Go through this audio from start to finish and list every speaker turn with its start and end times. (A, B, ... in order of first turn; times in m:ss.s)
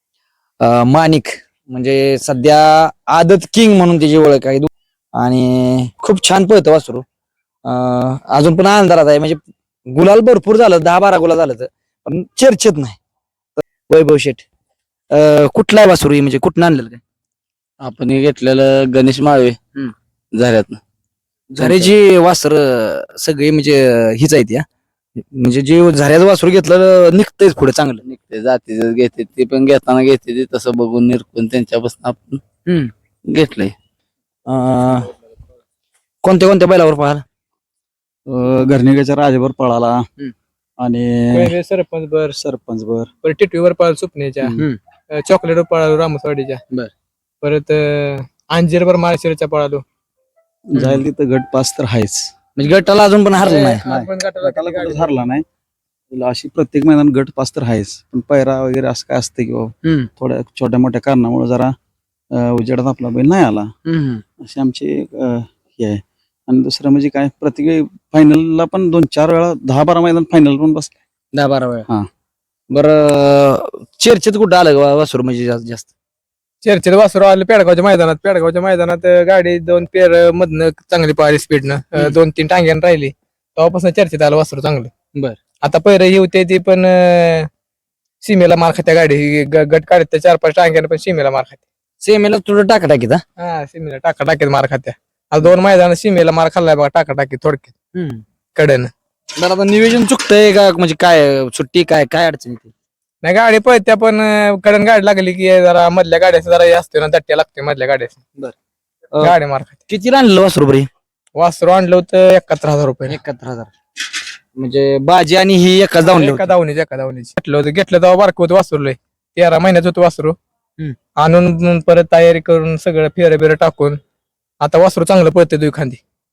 0:00.6-0:07.0 A
0:07.6-0:13.0 A
0:13.6-0:14.4 A
0:15.1-0:17.0 A
0:17.8-0:19.6 B
0:20.3-0:20.8 B
0:21.6-0:24.6 A
0:21.6-0:21.9 C
0:25.2-0:28.0 A
0:28.0-0:32.4 B
0:33.3-0:33.7 B
0:34.5-0:35.1 A
0:36.2-0:37.2 A
0:38.3-0:40.0 C
0:40.8-0:41.5 C
0:41.3-0:42.4 D
0:42.4-0:43.1 C
0:43.2-0:46.6 D
0:44.5-0:44.8 A
0:47.4-0:49.8 D
0:50.7-0:52.3 C
0:50.7-0:51.0 A
0:52.6-0:53.8 A
0:53.4-0:55.3 D
0:53.8-0:55.4 C
0:56.1-1:01.7 C
0:59.8-1:00.1 A
1:02.3-1:03.6 C
1:03.8-1:04.2 A
1:04.4-1:11.0 C
1:11.3-1:11.9 A
1:12.7-1:15.9 A
1:16.6-1:24.9 D
1:25.6-1:27.5 D
1:28.2-1:31.6 D
1:32.0-1:33.2 A
1:33.4-1:37.7 D
1:37.9-1:38.2 A
1:38.6-1:38.9 D
1:39.4-1:42.7 A
1:43.2-1:48.2 D
1:49.2-1:49.8 D
1:49.9-1:50.9 A
1:51.4-1:53.2 D
1:53.1-1:53.7 A
1:54.6-1:56.5 A
1:56.0-2:00.4 D
2:01.2-2:04.0 D
2:04.6-2:06.0 D